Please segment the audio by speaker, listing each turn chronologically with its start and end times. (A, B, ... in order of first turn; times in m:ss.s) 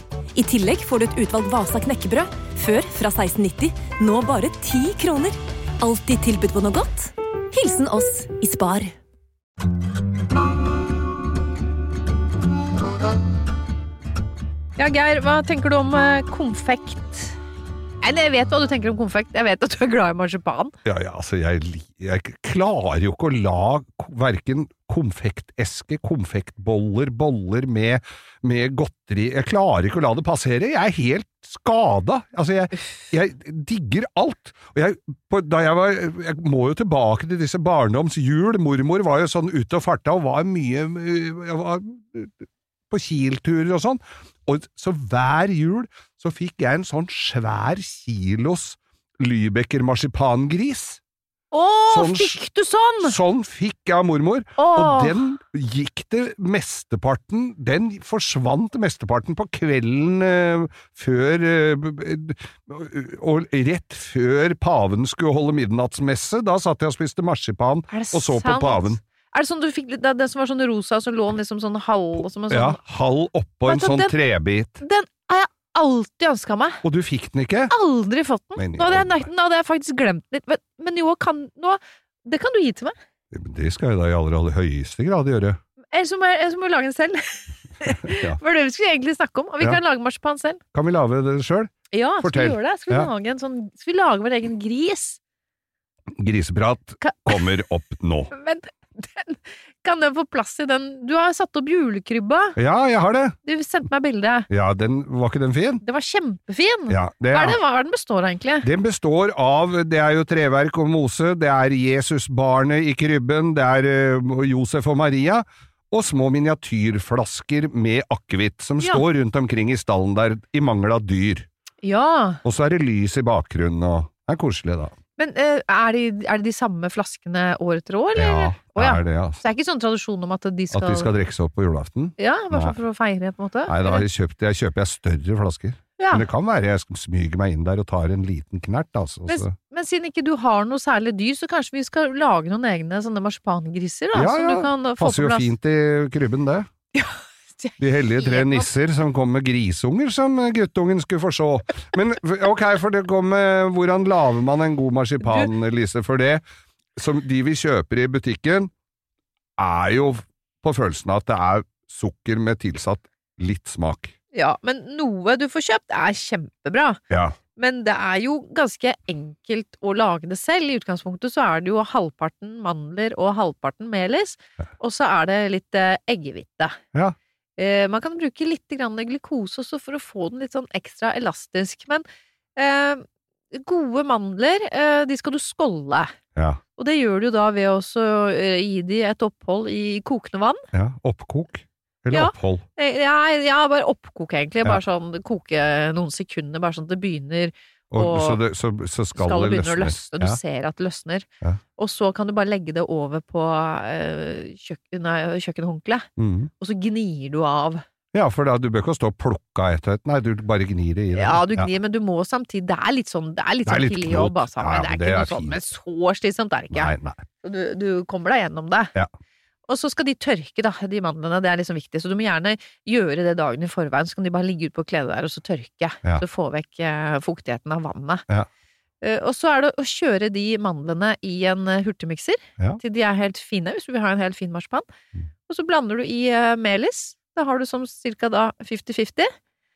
0:00.3-0:08.9 A
0:14.8-0:17.4 B
0:18.0-0:20.7 B
0:20.8-0:51.0 C
0:51.5-0:53.2 B
0:51.9-0:52.4 C
0:53.0-1:09.0 C
0:54.6-0:55.2 B
1:07.9-1:12.8 B
1:12.5-1:14.8 C
1:13.6-1:14.1 B
1:14.8-1:16.8 B
1:16.8-1:17.7 C
1:17.7-1:22.9 B
1:18.6-1:19.3 C
1:23.3-1:25.6 C
1:25.9-1:30.6 B
1:27.9-1:28.4 C
1:30.7-1:33.1 C
1:31.9-1:35.2 B
1:36.1-1:38.3 C
1:37.0-1:37.4 B
1:38.3-1:42.6 B
1:42.6-1:43.4 C
1:43.4-1:44.5 B
1:44.5-1:45.8 C
1:45.8-1:48.7 B
1:46.9-1:47.6 C
1:48.6-2:01.5 C
1:58.8-1:59.0 B
2:01.8-2:02.4 B
2:02.4-2:04.9 C
2:05.2-2:11.1 B
2:08.1-2:09.4 C
2:10.7-2:12.8 C
2:12.2-2:14.0 B
2:13.6-2:19.5 C
2:16.0-2:16.3 B
2:19.3-2:25.5 B
2:24.1-2:26.7 C
2:26.9-2:28.7 B
2:27.8-2:36.4 C
2:35.2-2:35.5 B
2:37.0-2:38.7 C
2:39.6-2:44.1 C
2:44.3-2:47.0 B
2:47.1-2:47.4 C
2:47.6-2:56.8 B
2:57.6-3:02.0 B
3:02.6-3:06.1 B
3:06.8-3:10.6 B
3:10.7-3:12.6 C
3:12.1-3:18.4 B
3:17.9-3:20.4 C
3:19.1-3:26.1 B
3:26.2-3:26.5 C
3:26.6-3:27.8 B
3:28.1-3:31.7 C
3:31.1-3:38.9 B
3:33.6-3:35.6 C
3:36.7-3:37.2 C
3:39.7-3:48.2 B
3:49.0-3:54.8 B
3:55.5-3:59.3 B